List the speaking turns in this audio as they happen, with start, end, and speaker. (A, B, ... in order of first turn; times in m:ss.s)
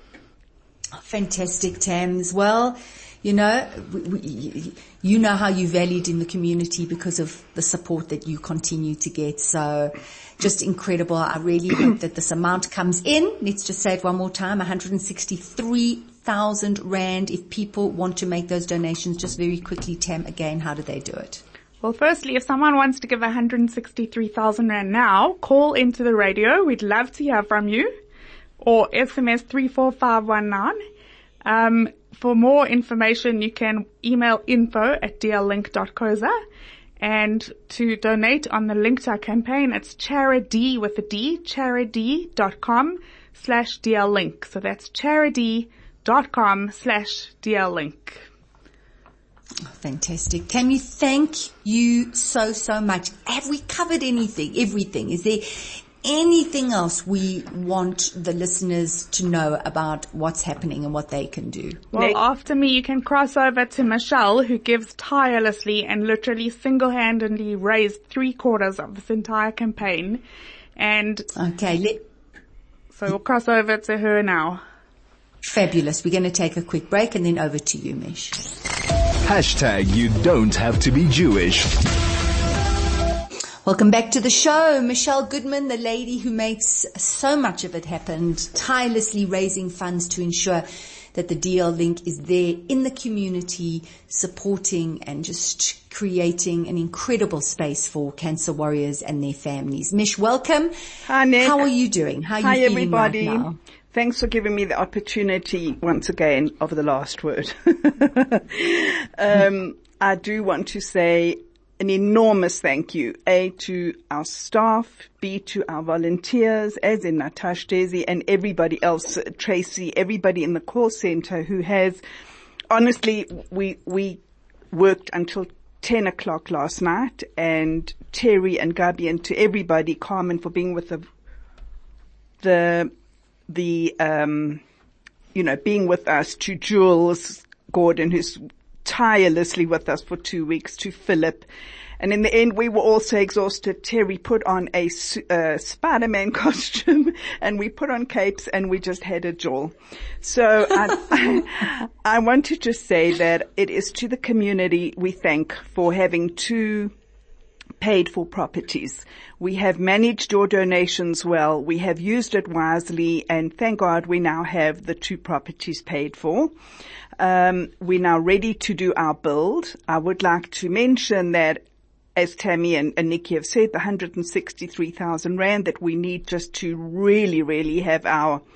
0:01.0-0:21.4 A
0:21.8-0:27.9 B
0:28.6-0:30.8 B
0:31.4-0:36.4 B
0:37.0-0:48.2 B
0:49.8-1:01.8 A
1:01.9-1:02.2 C
1:01.9-1:10.2 B
1:10.8-1:11.3 B
1:11.4-1:12.0 A
1:12.9-1:14.6 B
1:15.4-1:18.4 A
1:19.2-1:21.7 D
1:23.6-1:40.7 A
1:41.1-1:41.6 C
1:41.4-1:43.6 A
1:42.4-2:02.0 C
2:02.7-2:04.2 C
2:04.7-2:11.1 C
2:12.4-2:12.9 C
2:13.5-2:14.6 C
2:15.3-2:21.5 C
2:22.0-2:36.9 C
2:37.8-2:46.5 C
2:47.2-2:51.6 C
2:52.2-2:58.4 C